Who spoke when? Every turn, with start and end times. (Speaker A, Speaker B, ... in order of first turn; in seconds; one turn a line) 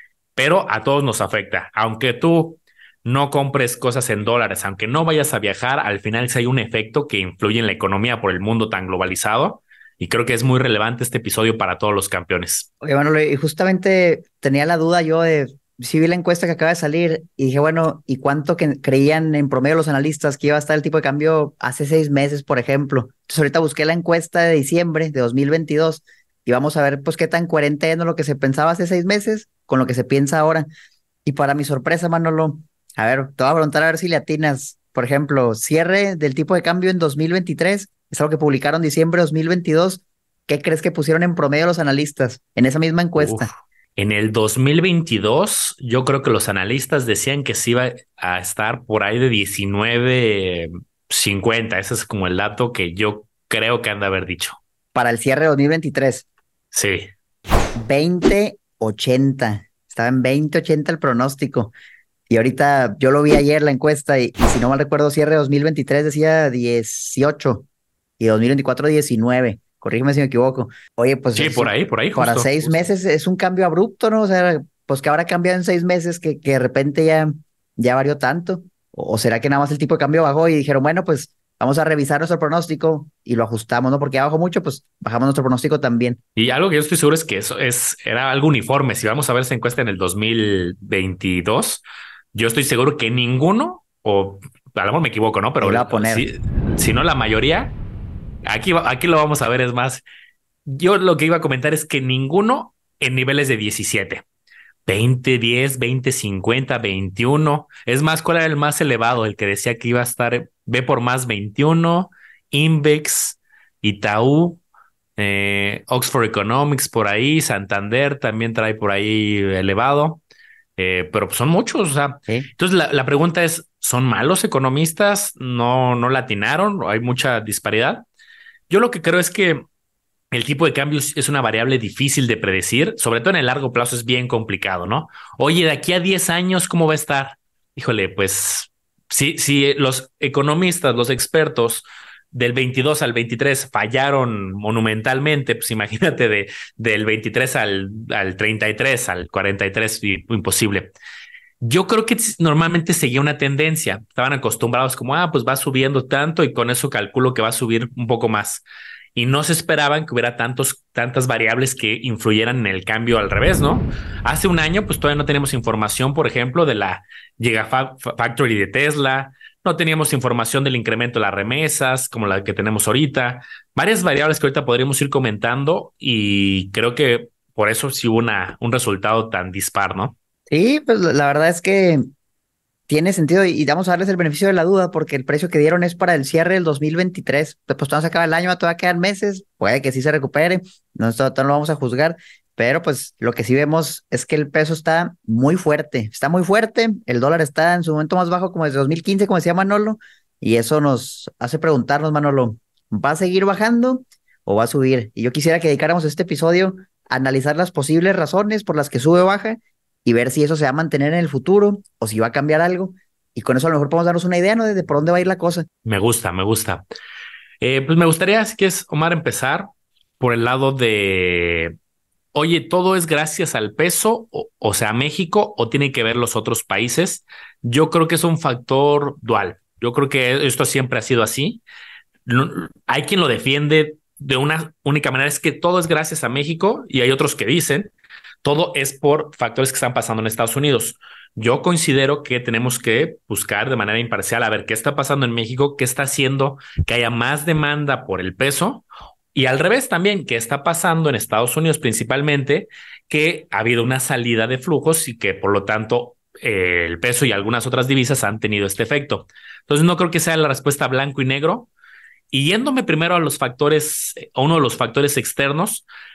Speaker A: 0.3-12.7
Speaker B: 12.8-30.7
Speaker B: 31.2-43.5
Speaker A: 43.2-54.6
Speaker B: 54.9-56.2
Speaker A: 56.7-57.1
Speaker B: 57.7-61.7
Speaker B: 62.3-67.7
Speaker B: 68.2-86.2
Speaker A: 71.3-72.9
Speaker A: 86.3-91.8
Speaker A: 92.3-97.7
Speaker B: 95.6-96.2
Speaker A: 98.5-100.0
Speaker A: 100.7-104.2
Speaker A: 104.8-114.6
Speaker A: 115.2-120.2
Speaker A: 120.8-128.0
Speaker A: 128.7-129.6
Speaker A: 130.3-150.9
Speaker A: 151.6-158.6
Speaker A: 159.2-180.2
Speaker B: 180.5-182.0
Speaker B: 182.9-215.7
Speaker A: 215.8-216.8
Speaker A: 217.6-219.7
Speaker A: 220.2-221.7
Speaker A: 222.3-231.6
Speaker A: 232.2-237.9
Speaker A: 238.4-261.7
Speaker A: 262.3-265.9